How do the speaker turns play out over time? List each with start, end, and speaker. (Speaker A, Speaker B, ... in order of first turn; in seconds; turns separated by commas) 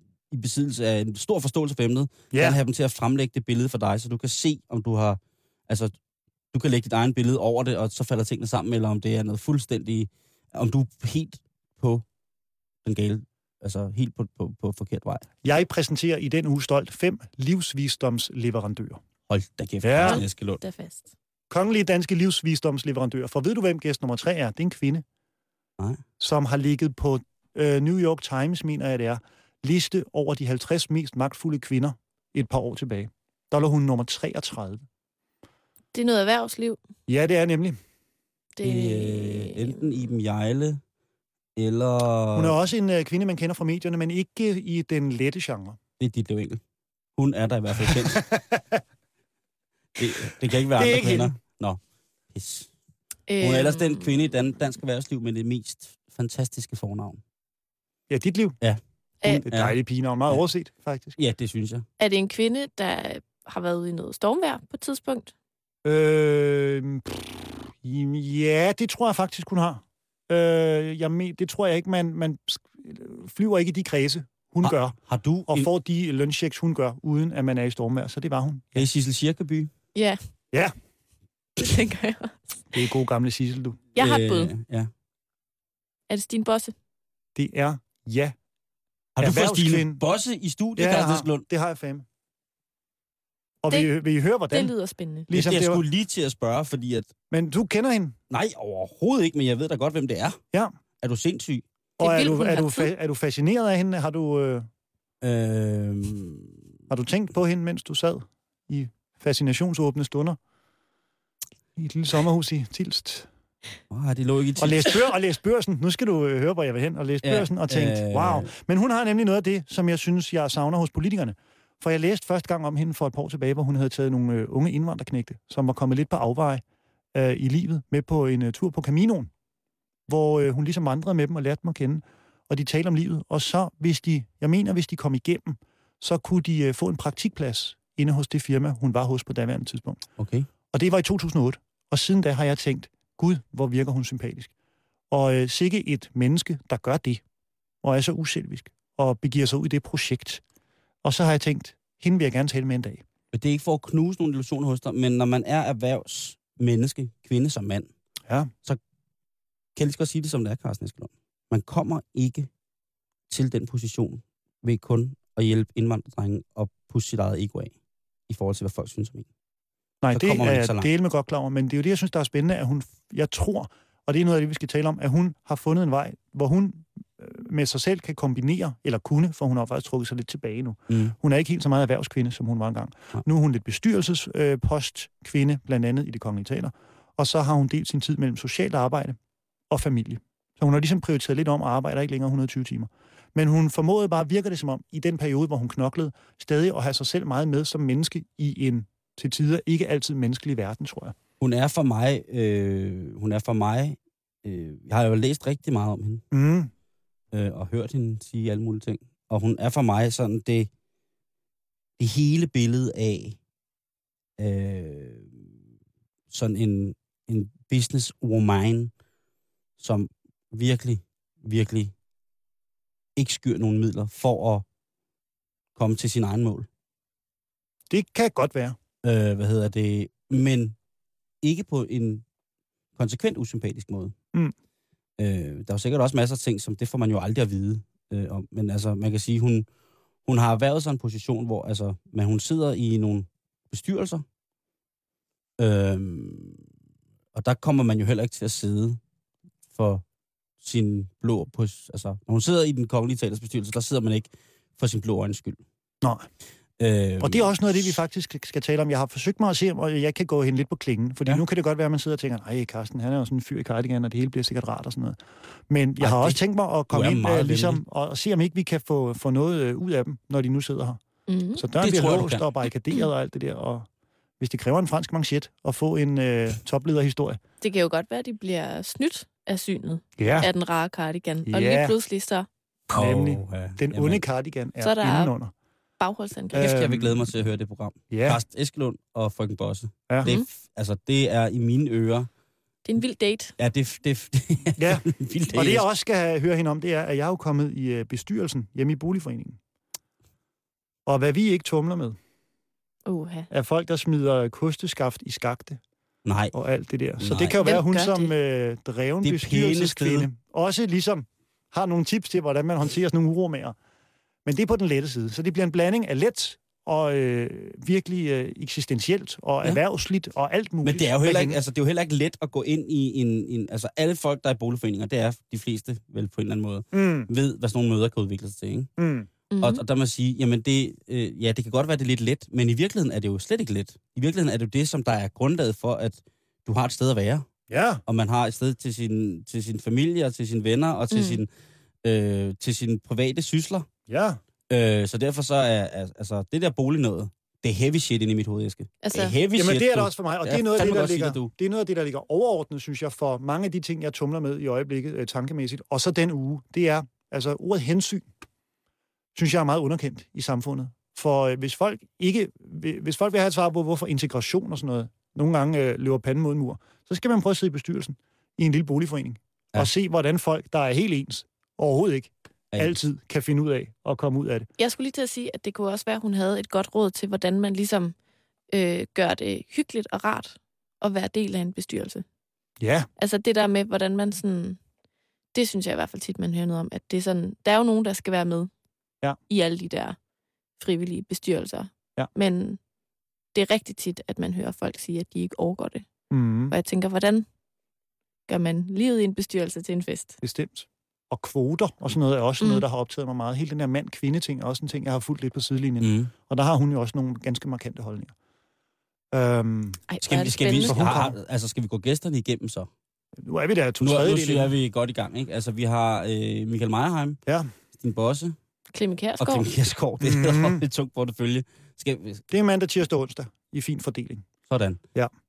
Speaker A: 0.3-5.9, Speaker B: 2.3-2.6, Speaker A: 6.5-12.0, Speaker A: 12.8-15.2, Speaker B: 15.4-19.0, Speaker A: 19.3-20.6, Speaker B: 19.8-20.2, Speaker C: 20.0-21.1, Speaker B: 21.5-25.0, Speaker B: 26.2-34.8, Speaker C: 35.9-36.8, Speaker B: 37.1-37.8, Speaker C: 38.6-40.1, Speaker A: 38.6-40.8, Speaker A: 41.5-42.6, Speaker B: 42.3-45.8, Speaker A: 46.0-46.6, Speaker A: 47.2-48.3, Speaker B: 47.8-48.8, Speaker A: 50.0-51.8, Speaker B: 50.7-51.3, Speaker A: 52.3-52.7, Speaker C: 53.3-54.1, Speaker A: 53.4-57.2, Speaker B: 58.1-58.6, Speaker A: 58.6-59.8, Speaker B: 59.3-61.1, Speaker A: 61.2-61.9, Speaker C: 62.0-65.3, Speaker B: 65.8-75.0, Speaker A: 74.6-75.7, Speaker B: 75.5-78.9, Speaker A: 78.7-79.7, Speaker C: 79.9-80.2, Speaker C: 81.6-82.4, Speaker B: 82.7-83.8, Speaker C: 83.9-84.5, Speaker A: 84.0-84.9, Speaker C: 86.1-86.7, Speaker B: 87.3-88.3, Speaker A: 89.2-91.4, Speaker B: 89.2-90.0, Speaker B: 90.8-92.0, Speaker B: 93.6-94.7, Speaker C: 94.5-95.3, Speaker B: 95.3-95.8, Speaker A: 95.3-97.1, Speaker B: 97.3-98.2, Speaker A: 98.3-100.4, Speaker A: 101.0-101.6, Speaker C: 102.0-102.9, Speaker B: 102.0-104.7, Speaker A: 105.2-106.5, Speaker B: 106.9-110.4, Speaker B: 111.8-113.3, Speaker A: 113.9-115.1, Speaker B: 114.6-126.6, Speaker A: 117.2-118.5, Speaker B: 127.1-129.3, Speaker B: 130.1-140.0, Speaker A: 140.2-140.5, Speaker B: 140.7-144.5, Speaker B: 145.1-147.2, Speaker B: 147.8-150.4, Speaker B: 151.0-153.0, Speaker A: 153.3-157.9, Speaker A: 159.7-162.5, Speaker A: 163.3-167.7, Speaker A: 168.3-169.2, Speaker B: 170.0-189.2, Speaker A: 170.1-170.9, Speaker A: 180.9-181.1, Speaker B: 189.7-201.1, Speaker A: 201.4-206.2, Speaker B: 206.3-206.7, Speaker A: 207.3-210.7, Speaker A: 212.0-213.4, Speaker A: 214.4-215.4, Speaker A: 216.3-218.9, Speaker A: 219.8-221.9, Speaker A: 223.2-224.6, Speaker A: 225.8-226.7, Speaker B: 227.9-228.8, Speaker A: 229.0-230.8, Speaker A: 231.4-232.2, Speaker A: 232.9-234.1, Speaker A: 235.2-239.7, Speaker A: 240.2-244.2, Speaker A: 245.6-246.6, Speaker A: 247.3-249.0, Speaker A: 249.7-250.0, Speaker A: 250.6-255.6, Speaker A: 256.8-258.0, Speaker B: 257.2-265.2, Speaker B: 265.7-271.0, Speaker A: 266.0-267.8, Speaker C: 271.3-271.6, Speaker B: 271.6-273.9, Speaker A: 271.8-272.4, Speaker B: 274.4-277.4, Speaker C: 277.6-282.5, Speaker B: 280.2-280.5, Speaker B: 281.5-281.9, Speaker B: 282.9-285.5, Speaker A: 282.9-284.2, Speaker C: 284.8-285.3, Speaker C: 286.0-286.7, Speaker B: 286.5-287.2, Speaker A: 286.5-292.3, Speaker B: 288.1-288.4, Speaker C: 292.8-293.5, Speaker A: 293.6-295.9, Speaker B: 294.8-299.6, Speaker B: 301.1-302.2, Speaker C: 303.1-303.5, Speaker B: 303.5-305.8, Speaker A: 306.2-306.5, Speaker B: 306.5-313.8, Speaker A: 307.2-307.8, Speaker C: 307.6-308.3, Speaker A: 309.2-310.3, Speaker B: 314.4-321.6, Speaker A: 320.8-328.9, Speaker B: 326.9-327.3, Speaker B: 329.0-329.3, Speaker C: 329.5-329.8, Speaker A: 329.6-337.5, Speaker B: 337.7-338.0, Speaker A: 338.1-341.5, Speaker C: 341.1-341.4, Speaker A: 342.0-343.9, Speaker B: 344.1-344.4, Speaker A: 344.7-351.5, Speaker C: 349.0-349.4, Speaker B: 349.5-358.3, Speaker B: 359.4-374.7, Speaker A: 372.7-373.0, Speaker C: 374.8-378.1, Speaker C: 378.7-382.2, Speaker B: 382.8-383.1, Speaker C: 383.2-384.8, Speaker C: 385.5-388.7, Speaker C: 389.5-390.2, Speaker C: 390.8-392.8, Speaker C: 393.5-396.1, Speaker B: 396.3-396.7, Speaker C: 396.7-397.4, Speaker C: 398.5-400.4, Speaker B: 400.4-408.3, Speaker A: 406.0-406.3, Speaker B: 409.3-410.0, Speaker C: 410.1-411.1, Speaker A: 410.2-412.9, Speaker B: 410.8-411.3, Speaker B: 413.4-414.7, Speaker A: 414.0-417.4, Speaker A: 417.9-418.6, Speaker C: 418.9-419.7, Speaker A: 419.4-422.4, Speaker B: 420.2-420.8, Speaker B: 422.5-424.5, Speaker A: 424.7-425.0